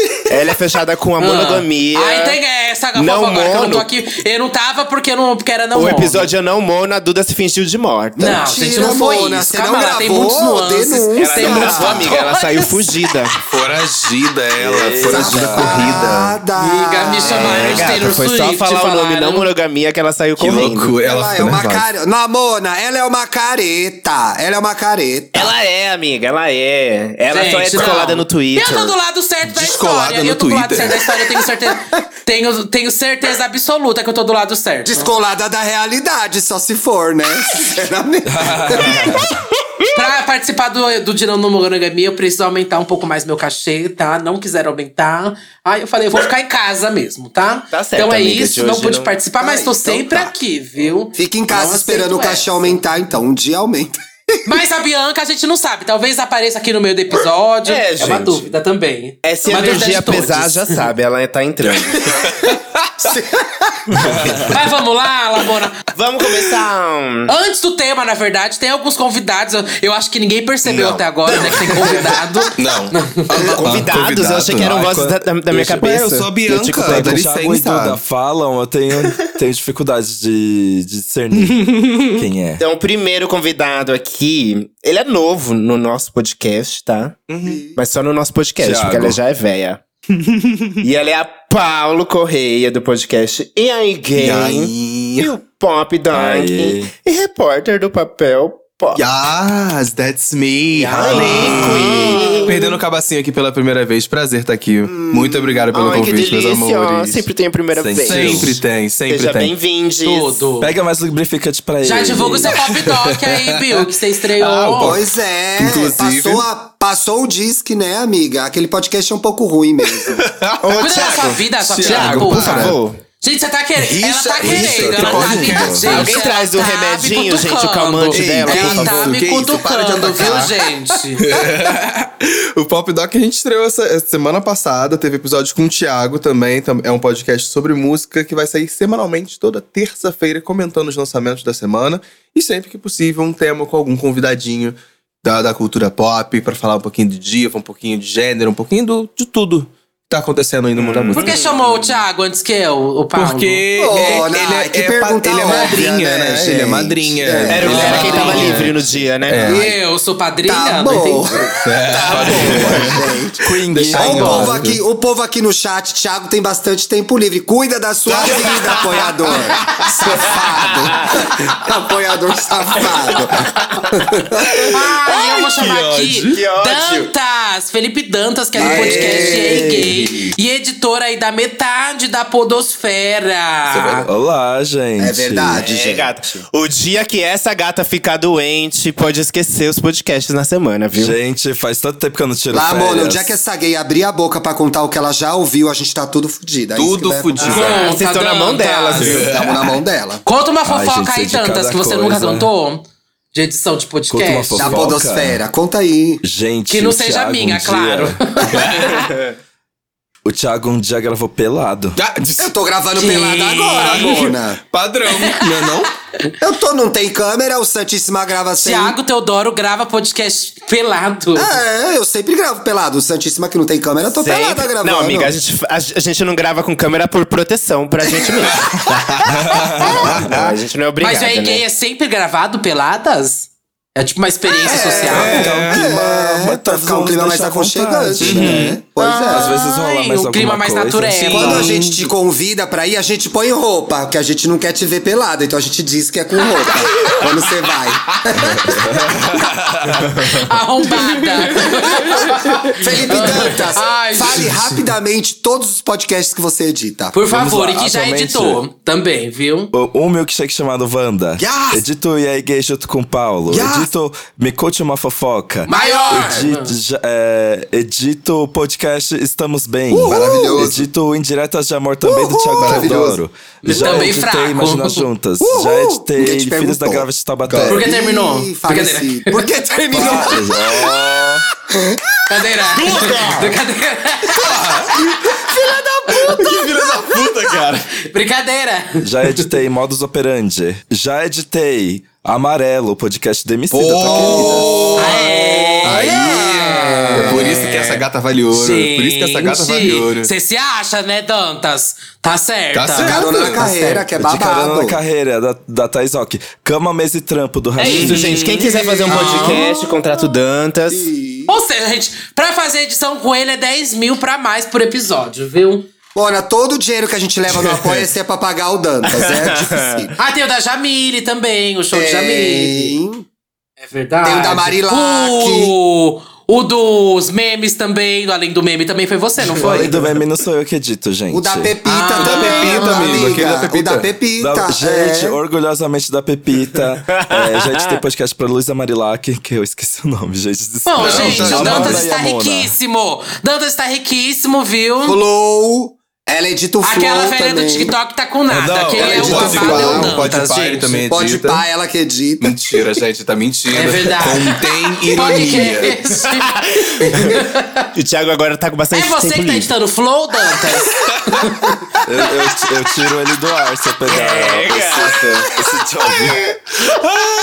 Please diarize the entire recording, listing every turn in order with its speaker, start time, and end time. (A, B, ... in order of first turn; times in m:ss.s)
0:00.3-0:02.4 A
0:01.2-0:06.3 B
0:02.9-0:03.9 A
0:05.7-0:08.4 A
0:08.2-0:12.1 C
0:08.2-0:13.0 B
0:11.2-0:13.4 A
0:13.5-0:16.4 D
0:14.6-0:16.1 E
0:15.0-0:17.8 C
0:16.6-0:19.5 B
0:17.2-0:21.0 A
0:17.4-0:18.0 D
0:20.4-0:21.8 D
0:21.0-0:25.5 C
0:25.3-0:29.0 A
0:27.3-0:35.2 B
0:29.4-0:31.0 D
0:34.8-0:39.4 C
0:38.3-0:39.3 E
0:39.9-0:52.8 B
0:47.7-0:49.1 A
0:49.4-0:50.3 C
0:51.1-0:54.0 C
0:54.4-1:00.8 B
0:57.6-0:58.5 A
0:59.2-1:02.2 A
1:01.7-1:02.3 D
1:03.9-1:04.6 A
1:04.3-1:04.5 E
1:04.4-1:05.8 B
1:05.9-1:07.3 A
1:07.3-1:13.6 B
1:10.6-1:14.9 D
1:11.4-1:12.1 A
1:13.4-1:17.3 A
1:14.6-1:15.6 E
1:15.5-1:18.0 D
1:16.8-1:22.6 E
1:22.6-1:27.2 A
1:27.3-1:27.6 D
1:27.4-1:27.8 C
1:27.7-1:29.8 A
1:28.6-1:29.2 E
1:30.7-1:39.0 A
1:34.2-1:35.3 D
1:36.1-1:36.9 E
1:38.9-1:47.3 D
1:40.7-1:42.7 A
1:41.0-1:42.7 B
1:44.8-1:45.8 C
1:45.7-1:50.4 A
1:47.7-1:48.6 E
1:48.0-1:49.6 D
1:50.0-1:50.7 B
1:50.6-1:52.6 E
1:51.8-1:55.0 B
1:52.5-1:56.4 D
1:54.7-2:00.3 C
2:00.0-2:02.8 D
2:00.6-2:03.0 A
2:00.8-2:11.3 B
2:03.8-2:05.6 C
2:04.4-2:05.9 E
2:04.5-2:06.1 D
2:05.8-2:09.2 A
2:08.1-2:31.3 D
2:30.8-2:32.0 A
2:31.1-2:33.6 B
2:33.1-2:39.6 D
2:33.7-2:38.7 C
2:35.5-2:35.8 B
2:37.5-2:39.6 A
2:37.6-2:38.5 B
2:39.4-2:39.8 C
2:39.4-2:41.2 B
2:40.4-2:43.4 C
2:41.5-2:44.8 D
2:41.9-2:42.9 A
2:43.4-2:44.6 E
2:43.9-2:54.7 C
2:48.0-2:51.6 D
2:50.3-2:51.1 A
2:54.4-2:56.4 D
2:54.7-3:04.0 B
2:56.3-2:57.1 A
2:58.5-2:59.9 C
2:58.6-2:59.6 D
3:03.7-3:05.6 E
3:05.0-3:06.4 C
3:05.6-3:11.2 A
3:10.9-3:13.3 E
3:12.5-3:17.7 C
3:16.7-3:17.9 D
3:17.4-3:19.3 A
3:17.4-3:19.2 B
3:19.0-3:19.8 D
3:19.3-3:20.2 C
3:20.2-3:24.9 B
3:20.6-3:22.5 E
3:24.1-3:25.4 E
3:24.6-3:26.2 C
3:26.2-3:28.3 E
3:26.7-3:28.9 B
3:28.4-3:29.2 D
3:30.2-3:32.0 E
3:32.0-3:32.5 D
3:32.4-3:34.6 C
3:33.0-3:34.2 B
3:33.8-3:35.9 D
3:35.1-3:35.6 B
3:36.4-3:39.0 C
3:38.6-3:41.5 B
3:41.4-3:45.3 C
3:44.2-3:51.6 A
3:48.4-3:49.3 D
3:49.2-3:50.0 E
3:50.0-3:50.5 D
3:51.0-3:55.5 B
3:54.6-3:59.6 C
3:54.8-3:55.9 D
3:55.0-4:01.3 E
3:58.2-3:58.8 D
3:59.3-4:01.7 B
4:01.2-4:02.1 D
4:01.3-4:08.8 C
4:08.4-4:10.3 E
4:10.2-4:14.8 B
4:11.9-4:17.1 C
4:17.1-4:19.7 B
4:17.3-4:18.6 E
4:19.7-4:37.8 E
4:21.4-4:21.8 C
4:23.5-4:23.9 C
4:25.6-4:26.7 B
4:25.7-4:26.5 C
4:29.9-4:30.7 C
4:30.0-4:30.9 D
4:32.0-4:33.2 C
4:32.6-4:33.2 D
4:33.6-4:35.0 B
4:35.4-4:37.1 C
4:37.5-4:37.8 D
4:37.6-4:39.4 B
4:37.6-4:40.6 C
4:39.9-4:41.4 E
4:41.7-4:42.0 C
4:42.2-4:45.0 B
4:42.8-4:43.5 D
4:44.3-4:45.0 D
4:45.2-4:47.4 C
4:46.3-4:48.0 D
4:48.0-4:49.5 B
4:49.0-4:54.7 E
4:53.7-5:00.3 D
4:54.0-4:57.8 C
4:55.0-4:57.9 B
4:58.5-5:04.1 B
5:02.7-5:03.6 D
5:03.0-5:05.0 C
5:04.2-5:08.3 E
5:07.8-5:11.1 A
5:07.8-5:09.6 D
5:09.0-5:09.9 C
5:09.1-5:09.6 B
5:10.9-5:11.6 C
5:11.5-5:15.9 B
5:16.1-5:20.1 C
5:19.0-5:20.1 A
5:20.2-5:23.0 B
5:21.9-5:23.2 C
5:23.8-5:29.9 B
5:24.2-5:25.7 C
5:29.6-5:31.7 E
5:31.3-5:35.4 C
5:31.8-5:33.4 B
5:32.2-5:34.1 D
5:34.4-5:42.7 E
5:37.1-5:38.0 A
5:40.8-5:45.2 B
5:41.0-5:42.0 D
5:45.0-5:47.9 C
5:46.8-5:51.0 B
5:48.5-5:51.6 D
5:49.0-5:50.2 C
5:49.0-5:49.6 E
5:51.1-5:52.6 C
5:52.4-5:56.0 D
5:53.7-5:54.6 B
5:55.1-5:57.9 B
5:56.5-5:57.4 A
5:57.9-5:59.7 A
5:58.9-6:01.8 B
6:02.0-6:06.5 E
6:04.1-6:05.5 A